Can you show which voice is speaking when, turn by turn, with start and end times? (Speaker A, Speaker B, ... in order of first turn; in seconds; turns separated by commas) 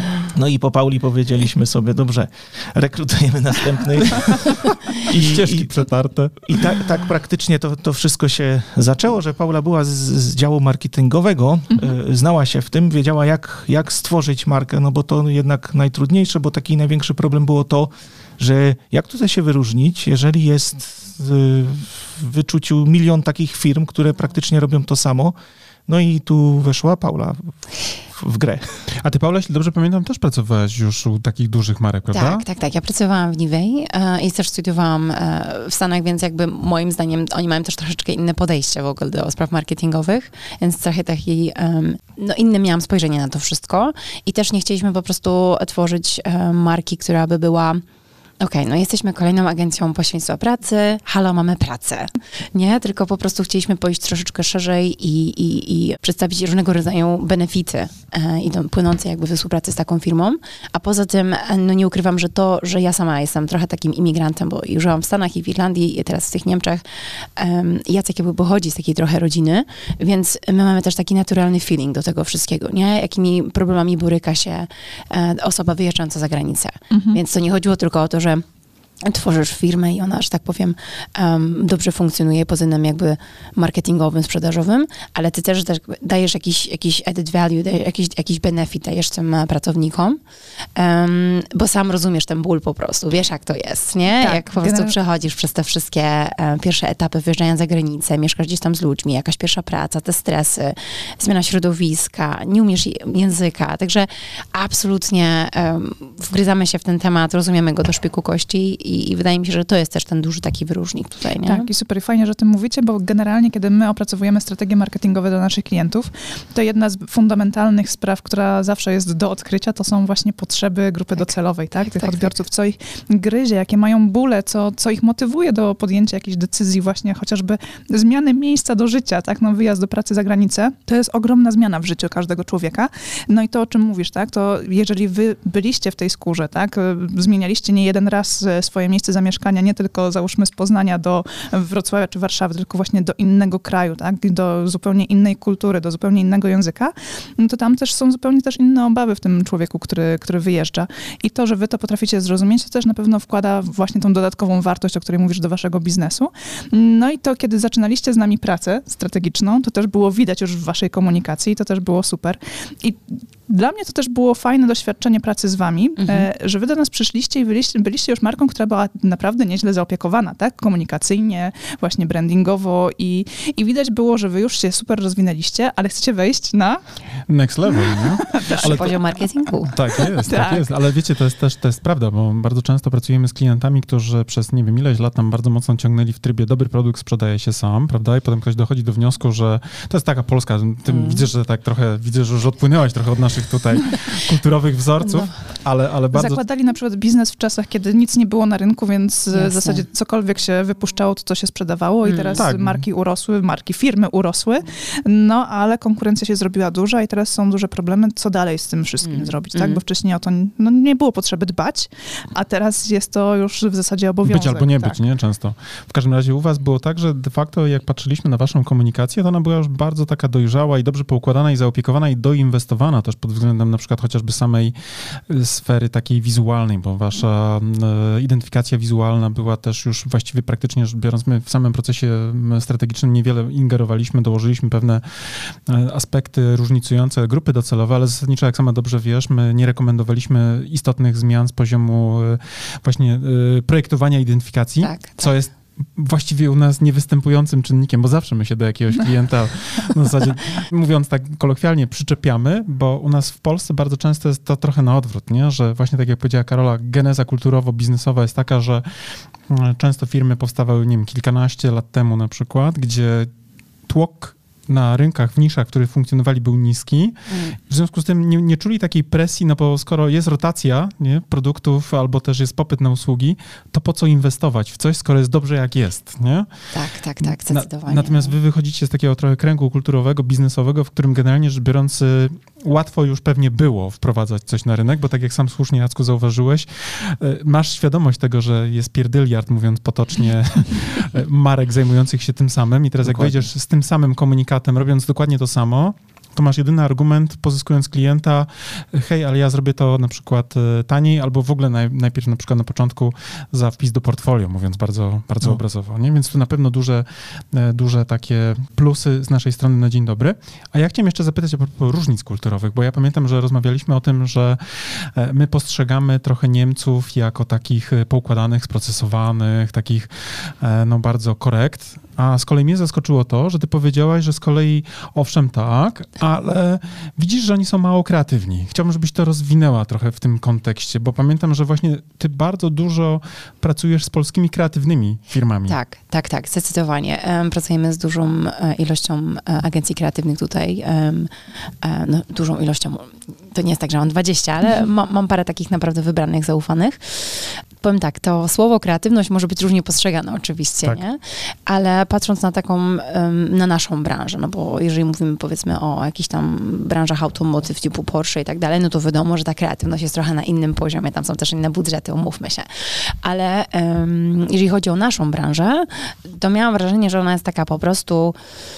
Speaker A: 0.2-5.7, Speaker B: 5.0-6.7, Speaker A: 6.4-25.3, Speaker A: 25.9-27.5, Speaker A: 28.1-28.8, Speaker B: 29.0-32.4, Speaker C: 32.1-47.8, Speaker C: 48.4-78.4, Speaker D: 76.9-77.2, Speaker C: 79.0-90.2, Speaker C: 90.8-111.7, Speaker D: 94.2-94.9, Speaker D: 111.4-176.8, Speaker C: 121.8-122.3, Speaker C: 166.0-166.3, Speaker B: 177.3-179.0, Speaker D: 177.8-178.9, Speaker C: 178.6-179.7, Speaker B: 179.7-196.4, Speaker D: 180.0-180.7, Speaker C: 190.9-191.2, Speaker C: 195.0-195.3, Speaker D: 196.1-215.0, Speaker C: 199.3-199.8, Speaker C: 202.0-202.4, Speaker B: 202.3-202.8, Speaker C: 209.0-209.8, Speaker B: 214.2-263.3, Speaker C: 244.8-245.3, Speaker B: 263.9-276.5, Speaker C: 267.3-267.5, Speaker C: 276.7-278.3, Speaker B: 277.2-335.8, Speaker A: 293.0-293.4, Speaker C: 335.7-341.3, Speaker C: 341.8-368.4